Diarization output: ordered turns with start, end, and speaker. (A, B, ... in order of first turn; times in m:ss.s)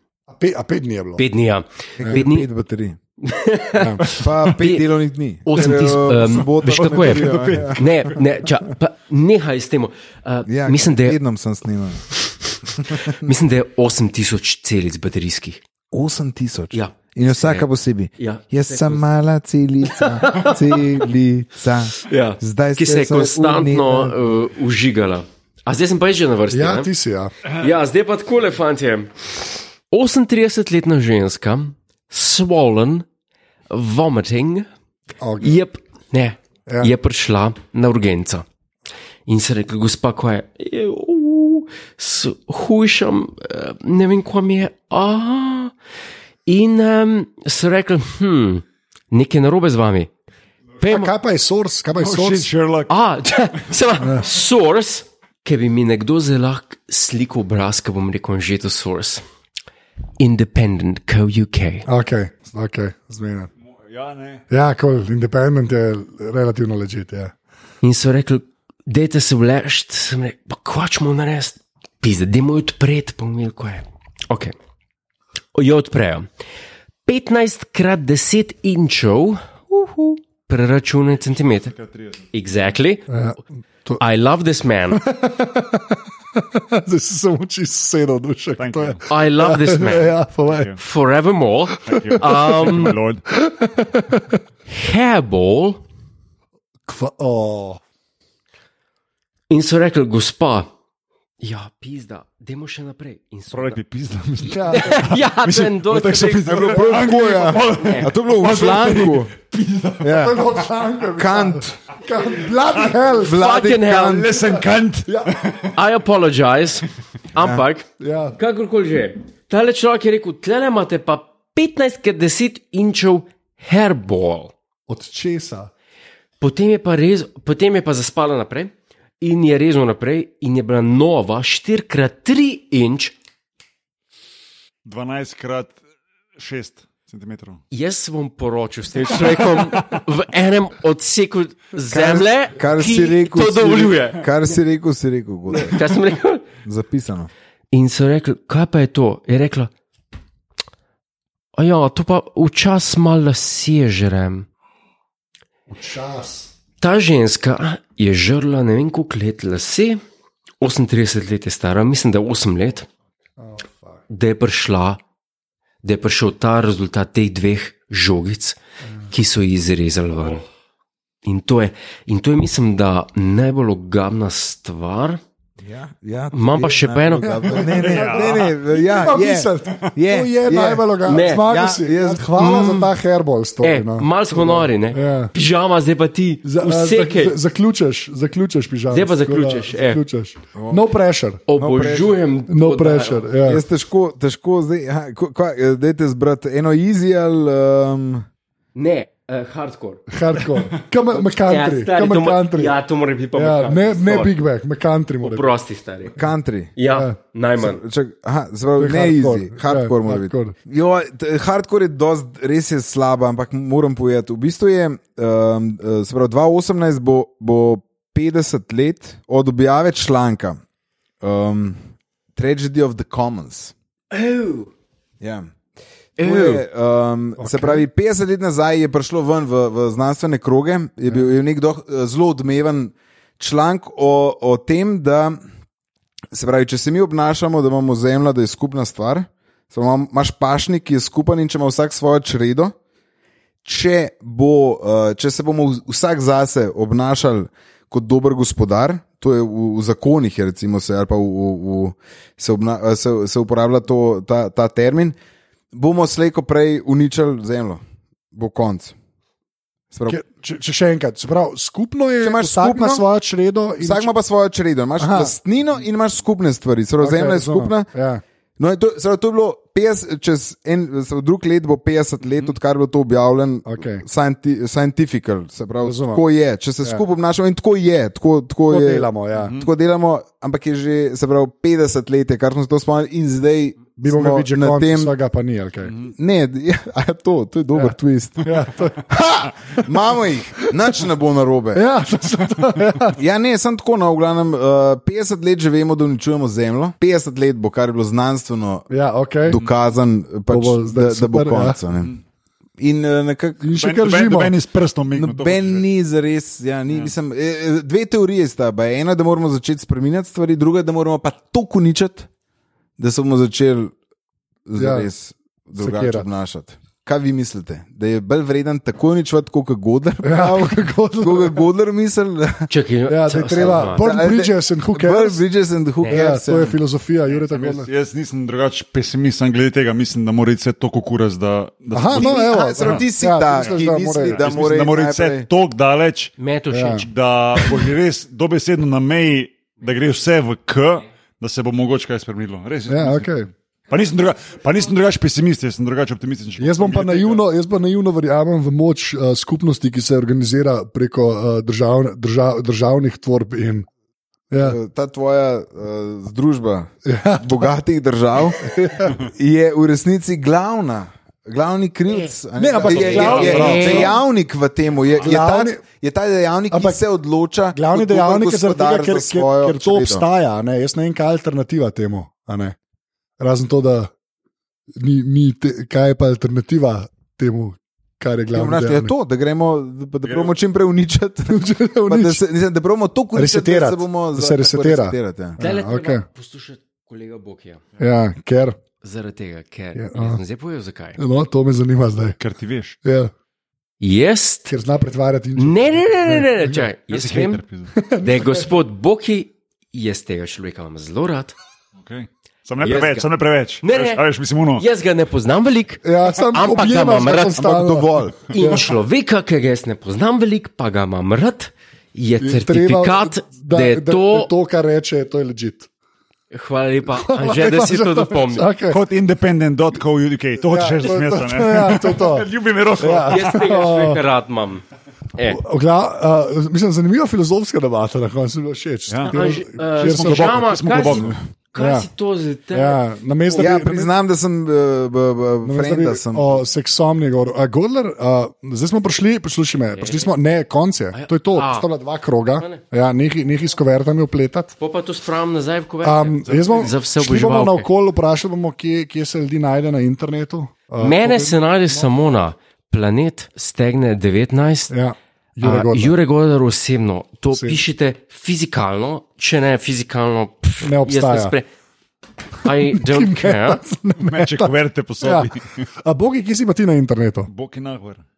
0:00.3-0:01.2 A
0:01.2-0:02.5 B
0:02.0-0:03.0 C
0:03.2-0:04.9 B
0:03.8-0:04.0 A
0:04.2-0:07.9 C
0:05.4-0:11.2 B
0:06.8-0:08.0 D
0:10.5-0:12.0 C
0:12.2-0:15.6 B
0:12.7-0:13.3 C
0:15.9-0:24.2 C
0:16.7-0:19.0 B
0:19.8-0:20.9 B
0:22.0-0:26.9 B
0:26.5-0:27.3 A
0:27.5-0:33.1 B
0:33.7-0:34.7 B
0:35.2-0:35.6 A
0:35.4-0:38.4 B
0:36.7-0:36.9 A
0:39.3-0:45.7 B
0:46.5-0:50.1 B
0:50.8-0:51.1 B
0:50.8-0:52.5 A
0:52.0-0:52.9 D
0:52.9-0:59.2 B
0:54.0-0:54.3 A
1:00.2-1:01.9 B
1:01.9-1:03.5 A
1:03.9-1:04.4 D
1:04.5-1:07.3 A
1:07.8-1:14.6 B
1:15.6-1:16.3 B
1:17.1-1:21.7 B
1:21.7-1:22.3 D
1:22.3-1:23.2 B
1:23.1-1:24.0 A
1:24.0-1:25.0 B
1:24.9-1:30.8 A
1:28.6-1:29.0 D
1:29.1-1:30.2 B
1:30.4-1:30.8 D
1:30.8-1:33.0 B
1:31.9-1:33.2 D
1:31.9-1:34.4 A
1:34.7-1:35.8 B
1:36.9-1:37.8 A
1:39.5-1:40.7 B
1:41.4-1:43.8 B
1:43.5-1:50.0 D
1:44.5-1:45.1 A
1:44.5-1:48.1 B
1:46.5-1:49.3 C
1:50.0-1:50.4 C
1:50.0-1:53.4 A
1:51.2-1:51.8 C
1:53.1-1:54.5 C
1:53.3-1:54.6 B
1:54.0-1:55.7 D
1:55.0-1:55.4 A
1:55.7-2:04.5 B
1:57.4-1:57.6 C
1:58.0-1:58.4 A
2:04.9-2:05.7 A
2:06.4-2:13.2 B
2:14.8-2:15.8 D
2:16.4-2:17.6 D
2:17.7-2:24.4 B
2:19.2-2:19.9 D
2:21.9-2:25.8 C
2:25.5-2:26.5 B
2:26.6-2:27.3 C
2:27.7-2:29.7 B
2:31.6-2:34.5 B
2:35.7-2:36.5 A
2:36.8-2:40.0 B
2:40.6-2:42.9 B
2:43.4-2:44.0 A
2:44.1-2:45.0 B
2:45.8-2:48.6 B
2:49.1-2:50.4 B
2:51.2-2:55.2 B
2:55.6-3:02.6 C
2:56.3-2:57.7 B
2:57.2-3:05.3 A
2:57.8-2:58.5 D
3:01.0-3:01.5 B
3:02.4-3:02.9 B
3:03.6-3:07.4 B
3:06.4-3:11.4 A
3:08.9-3:10.0 B
3:10.6-3:10.9 C
3:11.5-3:13.3 B
3:11.6-3:12.2 C
3:12.5-3:13.6 A
3:13.4-3:18.3 C
3:18.8-3:20.1 B
3:20.1-3:22.8 A
3:21.1-3:24.4 B
3:23.3-3:25.6 A
3:25.2-3:26.2 B
3:26.2-3:26.8 C
3:26.8-3:27.8 B
3:26.9-3:27.2 A
3:27.6-3:40.6 C
3:28.8-3:30.6 A
3:41.2-3:41.8 C
3:42.4-3:43.7 C
3:44.1-3:44.7 B
3:45.2-3:45.5 C
3:46.2-3:55.4 C
3:46.2-3:46.6 B
3:47.4-3:47.9 A
3:56.3-4:02.7 C
4:03.6-4:15.2 C
4:15.7-4:17.8 C
4:18.3-4:19.0 C
4:19.9-4:20.2 C
4:20.1-4:24.1 A
4:22.2-4:23.0 C
4:23.8-4:27.9 C
4:25.0-4:25.3 A
4:27.0-4:28.2 A
4:28.6-4:45.2 C
4:33.7-4:34.0 A
4:35.8-4:36.2 A
4:38.7-4:39.6 A
4:39.4-4:39.7 D
4:44.0-4:46.1 A
4:45.9-4:46.1 D
4:46.2-4:51.9 C
4:47.8-4:49.1 A
4:51.7-4:53.2 A
4:53.2-4:58.9 C
4:58.9-4:59.6 A
4:59.5-5:02.1 C
5:00.5-5:01.8 A
5:02.8-5:03.6 C
5:03.6-5:04.5 A
5:03.8-5:05.9 D
5:05.2-5:12.3 C
5:13.0-5:13.9 C
5:14.7-5:22.7 C
5:14.8-5:15.1 A
5:15.8-5:16.3 A
5:20.2-5:21.6 A
5:22.7-5:24.0 B
5:23.1-5:25.4 A
5:23.7-5:26.8 C
5:26.1-5:27.9 A
5:27.3-5:33.0 D
5:31.9-5:34.5 A
5:32.1-5:35.5 C
5:33.6-5:36.4 D
5:36.4-5:37.1 B
5:36.7-5:37.1 A
5:37.0-5:43.3 D
5:42.9-5:43.5 A
5:43.9-5:47.4 D
5:46.6-5:53.9 A
5:54.5-5:54.8 A
5:54.6-6:10.2 C
5:57.0-5:57.7 A
5:58.6-5:59.2 A
6:02.6-6:04.2 A
6:02.9-6:04.0 D
6:02.9-6:04.2 B
6:05.2-6:05.8 A
6:06.7-6:07.0 A
6:07.7-6:12.8 A
6:13.4-6:14.1 A
6:15.0-6:19.1 A
6:18.5-6:25.6 C
6:20.2-6:20.6 D
6:21.5-6:22.4 A
6:23.4-6:26.2 A
6:25.6-6:27.8 B
6:28.0-6:28.8 A
6:29.0-6:31.2 B
6:29.9-6:30.4 A
6:31.2-6:32.4 A
6:32.4-6:33.0 D
6:33.0-6:33.3 A
6:34.0-6:34.7 B
6:34.7-6:36.8 A
6:35.6-6:37.6 B
6:37.1-6:37.9 D
6:37.9-6:38.7 A
6:38.2-6:41.6 B
6:42.0-6:44.8 D
6:42.8-6:43.3 B
6:43.8-6:44.2 B
6:44.8-6:47.7 B
6:46.0-6:48.9 A
6:47.6-6:48.5 C
6:48.5-6:54.5 B
6:52.4-6:55.9 A
6:56.5-6:58.7 B
6:57.1-6:59.0 A
6:58.9-7:03.7 D
7:00.6-7:02.5 A
7:03.0-7:04.2 A
7:03.3-7:04.8 B
7:05.5-7:12.1 A
7:09.1-7:11.4 D
7:09.3-7:13.8 B
7:12.7-7:14.1 A
7:13.6-7:16.6 C
7:15.6-7:24.7 A
7:20.0-7:20.3 B
7:21.1-7:21.9 B
7:22.6-7:22.8 B
7:24.8-7:27.9 B
7:26.0-7:32.1 A
7:26.4-7:26.9 D
7:31.0-7:34.9 B
7:34.9-7:36.2 A
7:35.6-7:41.7 B
7:37.5-7:37.8 A
7:40.8-7:41.6 A
7:42.6-7:43.8 B
7:42.6-7:45.5 A
7:44.2-7:45.8 D
7:46.0-7:47.5 A
7:47.5-7:48.2 D